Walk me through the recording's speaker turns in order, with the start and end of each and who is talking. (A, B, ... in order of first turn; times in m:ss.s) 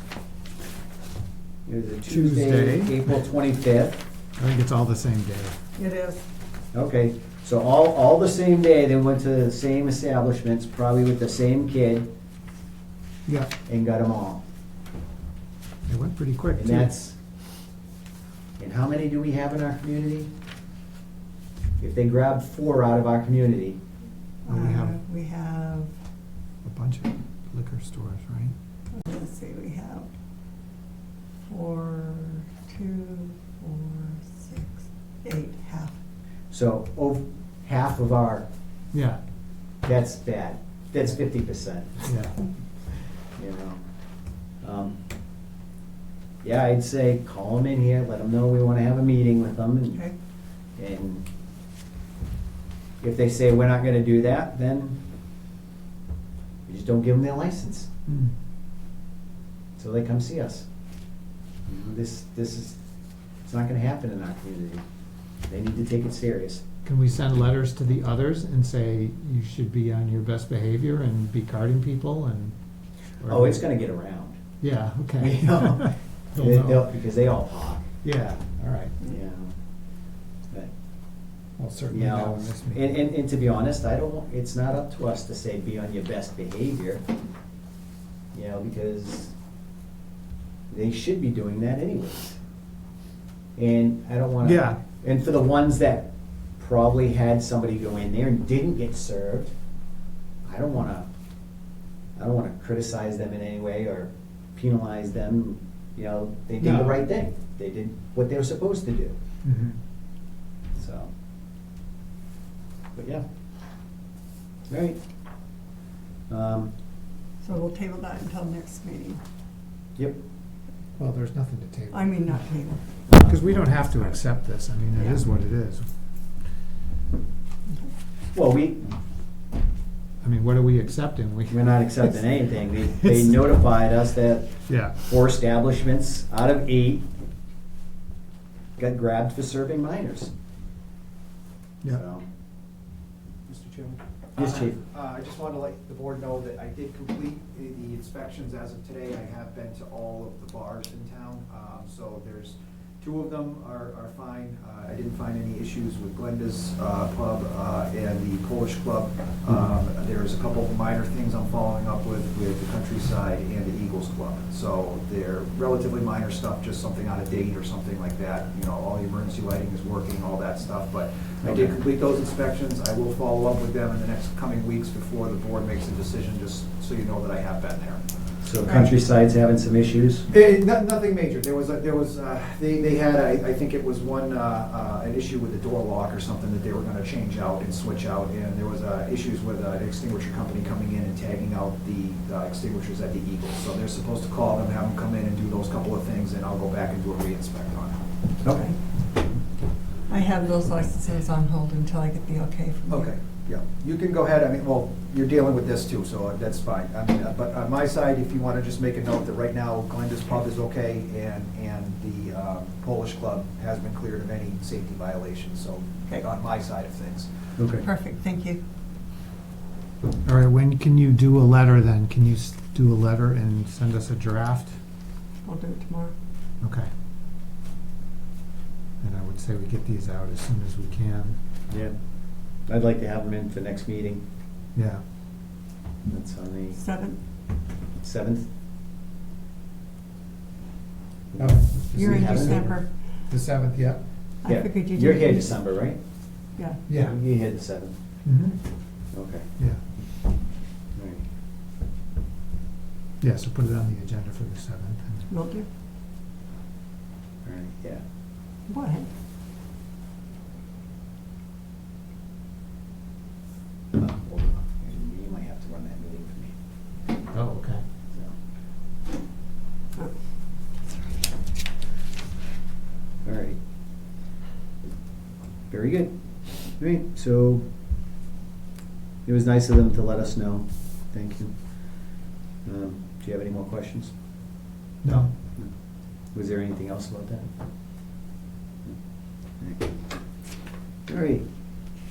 0:01.6-0:04.0 A
0:02.1-0:03.2 B
0:04.4-0:05.6 B
0:05.8-0:06.2 C
0:06.7-0:12.1 A
0:13.6-0:14.4 A
0:15.9-0:16.9 B
0:16.6-0:17.2 A
0:18.6-0:20.3 A
0:21.8-0:23.8 A
0:24.4-0:25.9 C
0:24.5-0:25.0 B
0:26.6-0:28.5 B
0:28.9-0:30.1 C
0:31.4-0:35.9 C
0:36.5-0:38.4 A
0:38.9-0:39.2 B
0:39.8-0:42.1 A
0:42.0-0:42.4 B
0:43.3-0:43.8 A
0:44.6-0:45.0 A
0:46.4-0:50.1 A
0:50.8-0:51.2 A
0:53.0-0:55.0 A
0:56.7-0:57.9 A
0:58.1-0:58.3 B
0:59.8-1:00.7 A
1:01.7-1:02.8 A
1:03.4-1:04.8 A
1:05.5-1:06.6 A
1:06.8-1:12.6 B
1:13.2-1:13.6 B
1:13.2-1:14.4 A
1:14.6-1:16.9 B
1:15.2-1:17.9 A
1:18.0-1:18.9 B
1:19.0-1:19.5 A
1:21.6-1:22.9 B
1:21.9-1:27.0 A
1:28.3-1:29.3 A
1:30.7-1:32.4 A
1:33.6-1:39.5 A
1:34.4-1:34.8 B
1:40.4-1:41.1 A
1:42.2-1:49.1 A
1:46.6-1:47.0 B
1:49.4-1:49.8 B
1:50.7-1:51.1 A
1:52.9-1:53.2 A
1:54.7-1:55.0 A
1:56.3-1:56.7 A
1:57.4-1:59.2 C
2:00.0-2:00.2 A
2:01.0-2:02.1 B
2:01.9-2:02.8 C
2:03.1-2:03.9 A
2:03.2-2:05.9 B
2:04.9-2:05.2 A
2:08.3-2:08.9 A
2:10.2-2:12.2 B
2:11.5-2:17.1 A
2:13.0-2:13.4 B
2:14.7-2:15.0 B
2:18.8-2:20.3 A
2:21.8-2:22.2 A
2:23.5-2:58.0 D
2:24.4-2:24.8 A
2:51.4-2:51.7 A
2:58.4-3:00.3 A
3:00.3-3:18.0 D
3:18.4-3:18.8 C
3:20.1-3:23.1 C
3:22.9-3:37.3 D
3:37.6-3:37.8 A
3:37.8-3:38.6 C
3:40.2-3:44.8 B
3:45.4-3:46.1 C
3:46.6-3:46.9 B
3:49.0-3:51.4 B
3:51.7-3:54.2 A
3:54.7-3:55.0 B
3:56.0-3:56.8 A
3:56.8-3:57.2 C
3:58.0-3:58.4 A
4:01.3-4:02.8 A
4:01.4-4:02.6 B
4:01.9-4:02.9 C
4:03.3-4:04.0 B
4:04.4-4:05.5 C
4:04.4-4:06.0 A
4:06.9-4:07.2 B
4:06.9-4:07.9 A
4:08.2-4:08.6 B
4:09.1-4:09.5 A
4:11.0-4:11.2 A
4:13.2-4:15.3 B
4:15.3-4:15.7 C
4:17.4-4:18.0 A
4:18.7-4:19.1 C
4:23.9-4:26.5 A
4:27.3-4:27.8 B
4:30.0-4:31.0 C
4:33.2-4:33.6 A
4:35.7-4:37.6 A
4:39.2-4:44.1 A
4:45.0-4:45.3 B
4:45.1-4:45.7 A
4:46.3-4:47.5 A
4:49.6-4:50.0 A
4:51.1-4:51.4 A